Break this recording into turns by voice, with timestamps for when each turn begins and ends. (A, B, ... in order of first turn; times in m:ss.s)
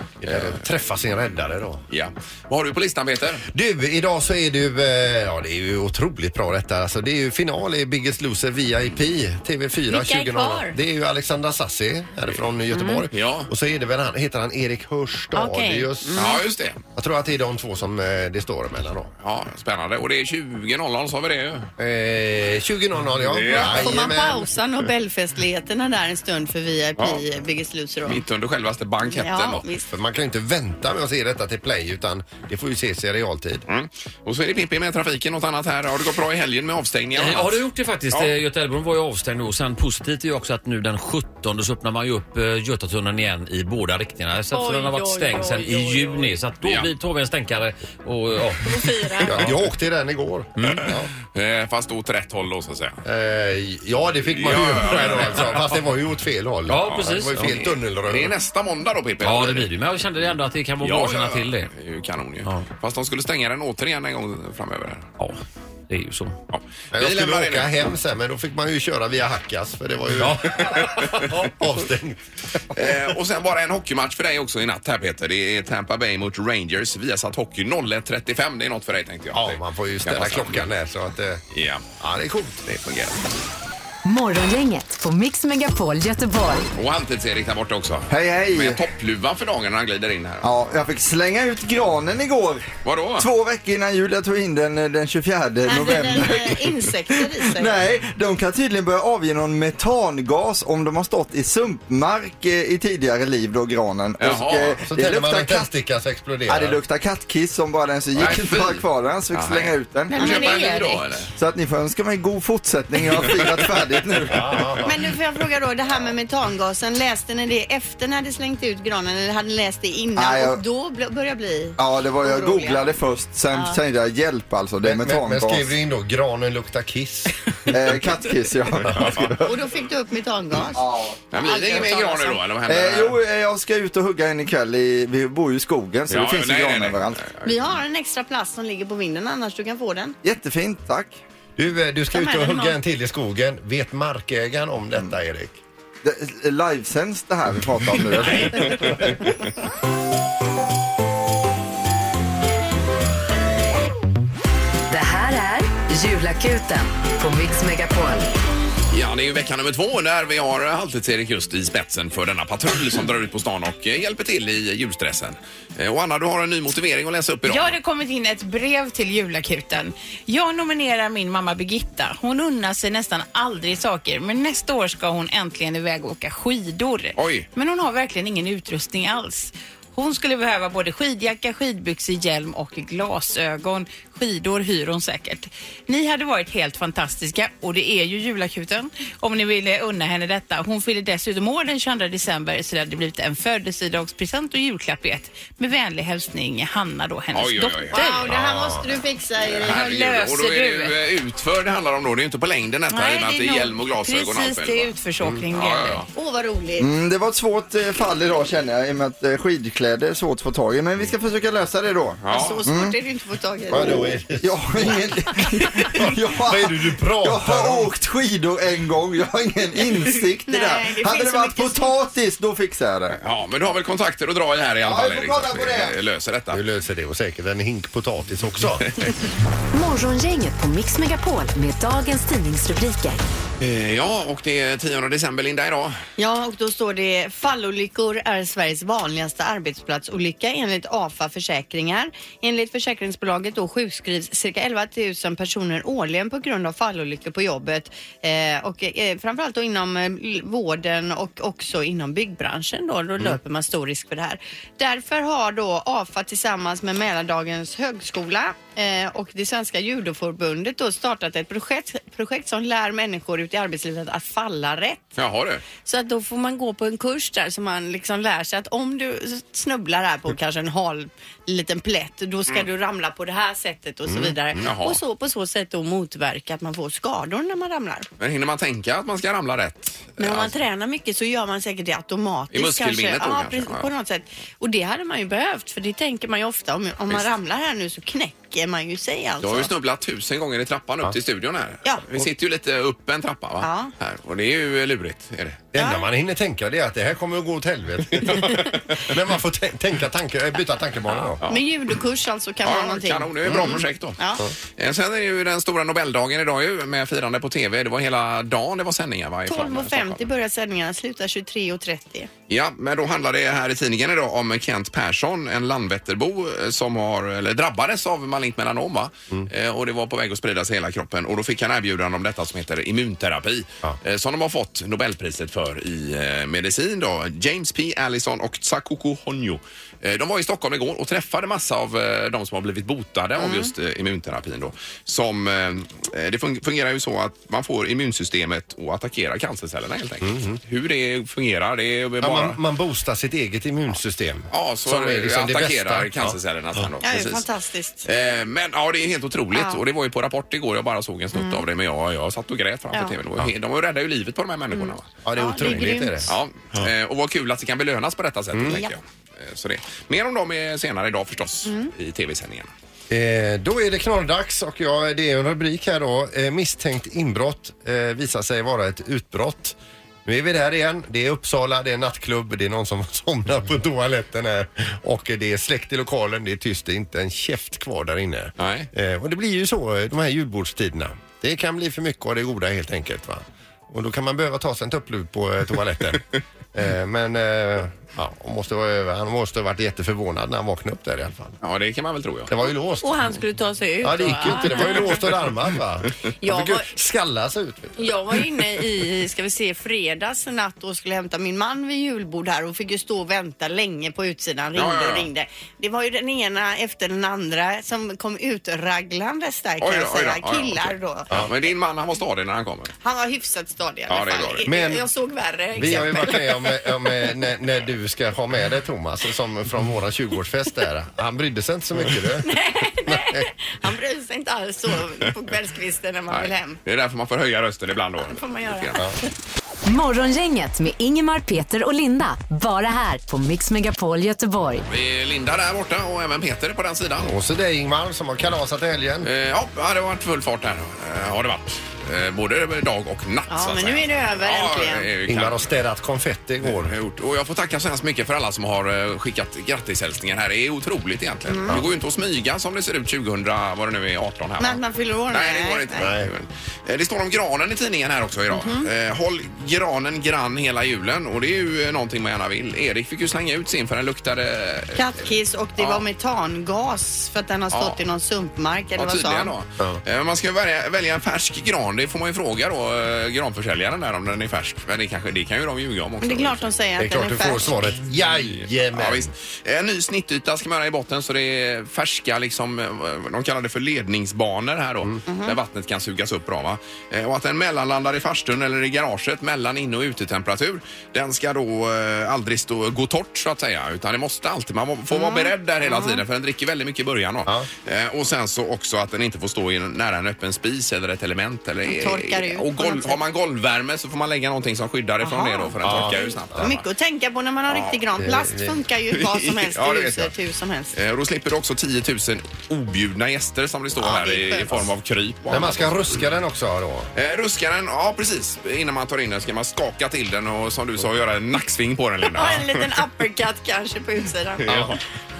0:00.2-0:01.8 A
0:00.2-0:00.6 B
0:01.9-0:03.4 B
0:03.5-0:16.3 A
0:09.9-0:10.8 C
0:12.7-0:13.0 C
0:13.1-0:13.5 B
0:15.3-0:16.4 C
0:16.2-0:16.8 B
0:16.9-0:19.1 A
0:19.2-0:21.7 B
0:21.8-0:24.4 A
0:23.2-0:24.0 B
0:23.6-0:28.2 C
0:28.0-0:29.6 B
0:29.0-0:29.9 C
0:29.9-0:33.6 A
0:33.7-0:37.6 B
0:37.2-0:49.5 D
0:44.5-0:46.3 C
0:46.6-0:46.9 B
0:48.6-0:49.3 C
0:49.2-0:51.1 A
0:50.6-0:50.9 D
0:51.3-0:53.0 B
0:53.0-0:58.3 A
0:54.3-0:55.7 B
0:56.7-0:57.4 D
0:56.9-0:59.7 B
0:59.2-1:01.7 D
1:00.8-1:05.1 B
1:05.9-1:06.4 D
1:06.5-1:07.8 B
1:06.9-1:12.2 A
1:12.7-1:20.6 B
1:19.3-1:21.4 A
1:21.5-1:21.8 B
1:22.0-1:22.6 A
1:22.6-1:23.2 B
1:24.0-1:26.7 E
1:26.7-1:30.7 B
1:28.1-1:28.8 F
1:30.4-1:36.6 F
1:32.8-1:33.3 B
1:35.6-1:37.7 C
1:37.4-1:45.7 F
1:44.2-1:44.8 B
1:44.9-1:46.8 A
1:46.5-1:50.6 F
1:48.2-1:51.3 B
1:50.1-1:51.0 C
1:50.2-1:50.9 G
1:51.4-1:54.8 F
1:54.3-1:54.9 A
1:54.8-2:02.8 C
2:00.2-2:00.6 F
2:01.8-2:05.7 F
2:03.5-2:03.8 C
2:04.8-2:08.0 A
2:07.7-2:09.5 F
2:08.8-2:09.2 A
2:08.9-2:09.3 B
2:09.4-2:12.4 C
2:10.7-2:11.2 F
2:11.3-2:13.2 B
2:12.7-2:17.2 F
2:16.1-2:17.6 B
2:17.4-2:20.2 C
2:20.2-2:21.2 F
2:21.6-2:25.6 A
2:22.1-2:22.8 C
2:26.0-2:29.3 F
2:34.9-2:38.3 E
2:38.9-2:47.8 B
2:47.4-3:18.3 G
2:57.2-2:57.5 B
3:17.3-3:18.0 B
3:17.9-3:19.8 C
3:18.3-3:18.9 A
3:19.4-3:24.9 B
3:19.6-3:20.9 G
3:22.9-3:26.0 G
3:25.5-3:26.1 B
3:26.1-3:26.9 C
3:26.8-3:32.9 F
3:32.2-3:32.6 B
3:32.3-3:34.0 C
3:33.7-3:37.9 A
3:33.7-3:43.2 F
3:40.5-3:41.9 C
3:43.2-3:46.6 B
3:44.8-3:46.0 F
3:46.5-3:48.9 A
3:49.7-3:53.2 E
3:53.6-3:56.0 B
3:56.2-4:25.1 C
4:25.2-4:25.6 B
4:25.8-4:38.1 C
4:34.1-4:34.6 A
4:34.6-4:35.0 B
4:38.2-4:40.5 B
4:40.2-4:49.7 C
4:42.5-4:43.9 B
4:49.4-4:55.6 B
4:53.6-4:53.9 C
4:55.7-5:01.4 A
4:55.8-4:56.0 C
4:58.3-4:58.6 B
5:01.3-5:01.6 B
5:01.5-5:04.5 C
5:02.6-5:04.2 B
5:03.5-5:03.8 A
5:04.8-5:10.3 B
5:09.5-5:12.3 C
5:12.5-5:42.6 B
5:33.4-5:33.7 C
5:40.2-5:40.6 A
5:42.2-5:46.4 A
5:44.5-5:47.4 B
5:47.0-5:48.1 C
5:48.0-5:55.1 B
5:49.5-5:49.8 C
5:51.3-5:51.6 C
5:54.7-5:56.3 C
5:55.2-5:56.4 A
5:56.3-6:02.7 B
5:58.5-5:58.8 A
6:01.6-6:01.9 C
6:03.1-6:31.6 A
6:18.6-6:18.9 B
6:31.6-6:32.5 B
6:32.5-6:33.4 A
6:33.0-6:35.2 C
6:34.0-6:38.2 A
6:34.7-6:35.2 B
6:36.4-6:36.9 C
6:38.0-6:51.4 C
6:44.7-6:45.3 B
6:49.8-6:52.9 B
6:53.0-6:56.4 C
6:54.1-6:54.6 B
6:54.6-6:55.0 A
6:55.8-7:02.5 A
7:02.4-7:06.8 C
7:03.0-7:03.5 A
7:06.3-7:09.0 B
7:08.2-7:09.0 C
7:09.8-7:14.8 E
7:14.9-7:17.3 B
7:17.2-7:19.3 A
7:19.2-7:25.7 B
7:23.5-7:25.1 C
7:25.3-7:26.9 A
7:26.6-7:46.0 B
7:31.5-7:31.8 C
7:34.6-7:36.1 C
7:36.0-7:36.3 A
7:38.5-7:38.9 C
7:45.0-7:49.5 C
7:47.7-7:48.0 B
7:49.0-7:56.7 B
7:56.2-7:57.7 C
7:57.0-7:59.3 A
7:58.3-8:26.8 B
8:05.2-8:05.6 C
8:15.1-8:16.2 C
8:21.8-8:23.2 C
8:25.2-8:31.0 C
8:25.8-8:26.7 A
8:27.7-8:28.0 B
8:28.2-8:28.8 A
8:29.1-8:30.3 B
8:30.9-8:36.1 B
8:34.0-8:34.9 C
8:35.5-8:37.1 A
8:37.1-8:42.9 B
8:42.3-8:44.9 C
8:44.6-8:45.0 B
8:44.7-8:45.0 A